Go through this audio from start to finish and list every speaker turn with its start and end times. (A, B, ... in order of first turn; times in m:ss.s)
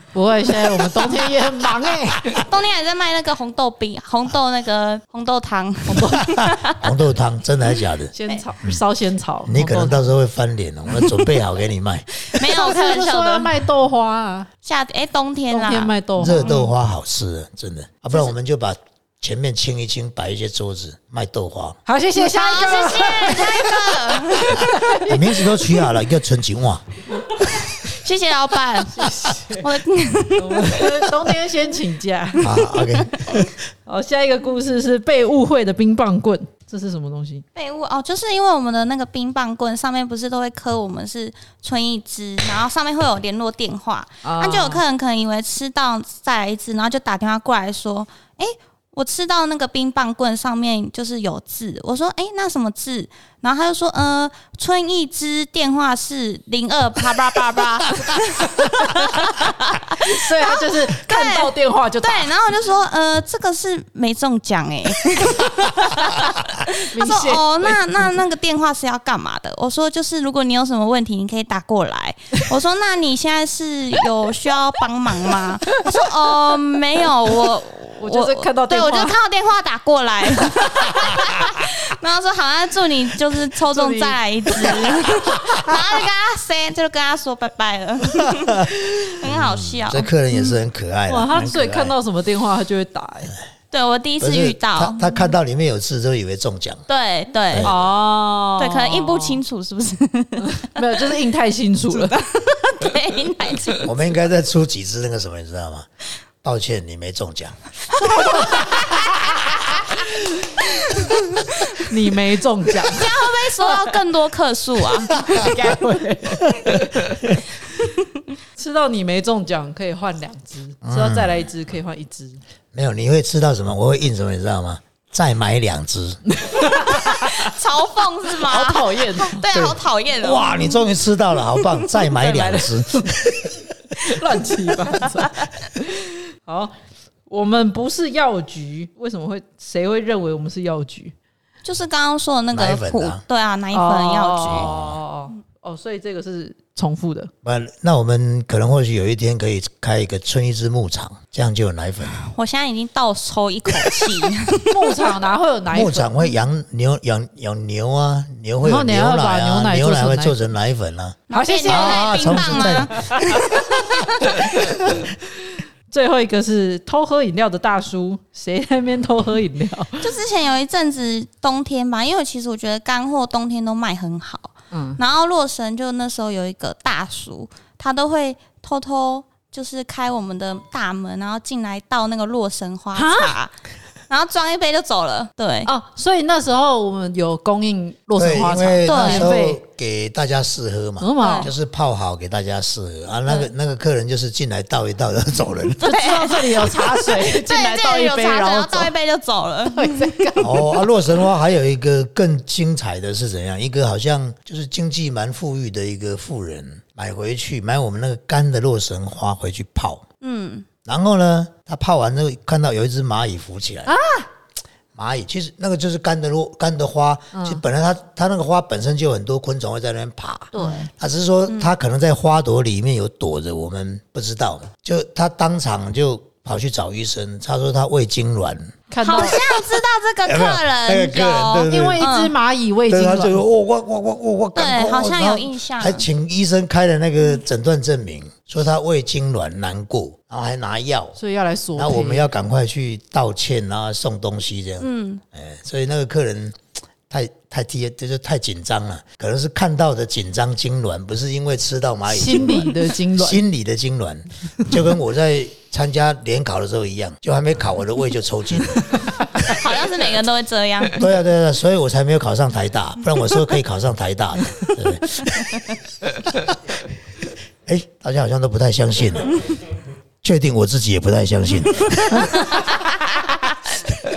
0:00.1-0:02.4 A
0:02.4-0:07.0 B
0:05.9-0:06.3 A
0:06.3-0:08.8 C
0:08.1-0:10.1 A
0:09.5-0:12.1 C
0:12.3-0:13.5 B
0:12.4-0:14.5 A
0:14.6-0:16.7 B
0:15.5-0:16.6 A
0:16.2-0:21.8 C
0:21.9-0:25.7 A
0:22.2-0:24.7 B
0:25.0-0:26.8 C
0:27.8-0:30.9 B
0:28.9-0:29.7 A
0:30.4-0:32.6 A
0:32.4-0:33.4 C
0:32.7-0:33.2 B
0:33.9-0:37.4 A
0:37.6-1:30.5 B
0:44.2-0:44.8 A
1:00.0-1:02.3 A
1:06.9-1:07.8 A
1:18.0-1:19.2 A
1:23.7-1:24.8 A
1:28.3-1:28.7 C
1:29.2-1:31.9 C
1:31.1-1:33.3 A
1:33.7-1:35.2 B
1:34.2-1:36.8 C
1:36.9-1:37.7 B
1:37.5-1:37.8 C
1:37.6-1:39.4 A
1:38.6-1:40.8 B
1:40.4-1:42.3 A
1:42.0-1:43.9 B
1:43.8-1:45.9 C
1:46.4-1:47.6 C
1:48.2-1:48.6 A
1:48.3-1:49.4 C
1:50.9-1:51.7 B
1:51.8-1:53.1 A
1:52.8-1:55.6 B
1:55.3-1:57.1 A
1:58.6-2:02.4 A
2:00.8-2:01.4 C
2:02.7-2:06.2 C
2:06.3-2:07.3 A
2:06.9-2:10.6 B
2:08.4-2:09.4 A
2:09.5-2:13.6 C
2:12.2-2:13.2 A
2:14.0-2:16.7 A
2:17.3-2:21.1 A
2:21.6-2:24.7 B
2:22.5-2:23.2 C
2:23.7-2:27.3 A
2:24.5-2:25.0 C
2:27.4-2:32.2 C
2:32.2-2:35.2 B
2:34.7-2:36.2 A
2:35.7-2:43.0 C
2:38.6-2:40.4 A
2:41.3-2:44.5 B
2:41.3-2:43.6 A
2:44.3-2:45.2 A
2:45.9-2:50.1 A
2:50.0-3:03.5 B
2:54.7-2:55.0 A
3:03.0-3:03.4 A
3:04.1-3:05.7 B
3:05.7-3:09.6 A
3:08.2-3:16.0 C
3:08.8-3:09.4 B
3:11.0-3:11.5 A
3:11.2-3:11.5 B
3:15.8-3:18.9 A
3:15.8-3:20.3 B
3:19.7-3:20.8 A
3:20.4-3:30.0 C
3:30.2-3:30.7 B
3:30.9-3:34.0 C
3:33.9-3:34.3 A
3:35.0-3:48.7 C
3:37.3-3:37.6 A
3:40.5-3:40.9 B
3:48.9-3:49.4 A
3:49.0-3:52.3 B
3:50.2-3:52.1 C
3:51.7-3:53.4 A
3:52.9-4:01.2 C
3:54.6-3:56.1 B
4:01.2-4:02.3 A
4:01.8-4:06.6 C
4:04.8-4:05.2 B
4:07.1-4:19.6 C
4:12.1-4:13.4 A
4:19.4-4:21.0 B
4:21.0-4:25.6 C
4:26.3-4:26.6 C
4:27.7-4:29.5 C
4:30.2-4:32.8 C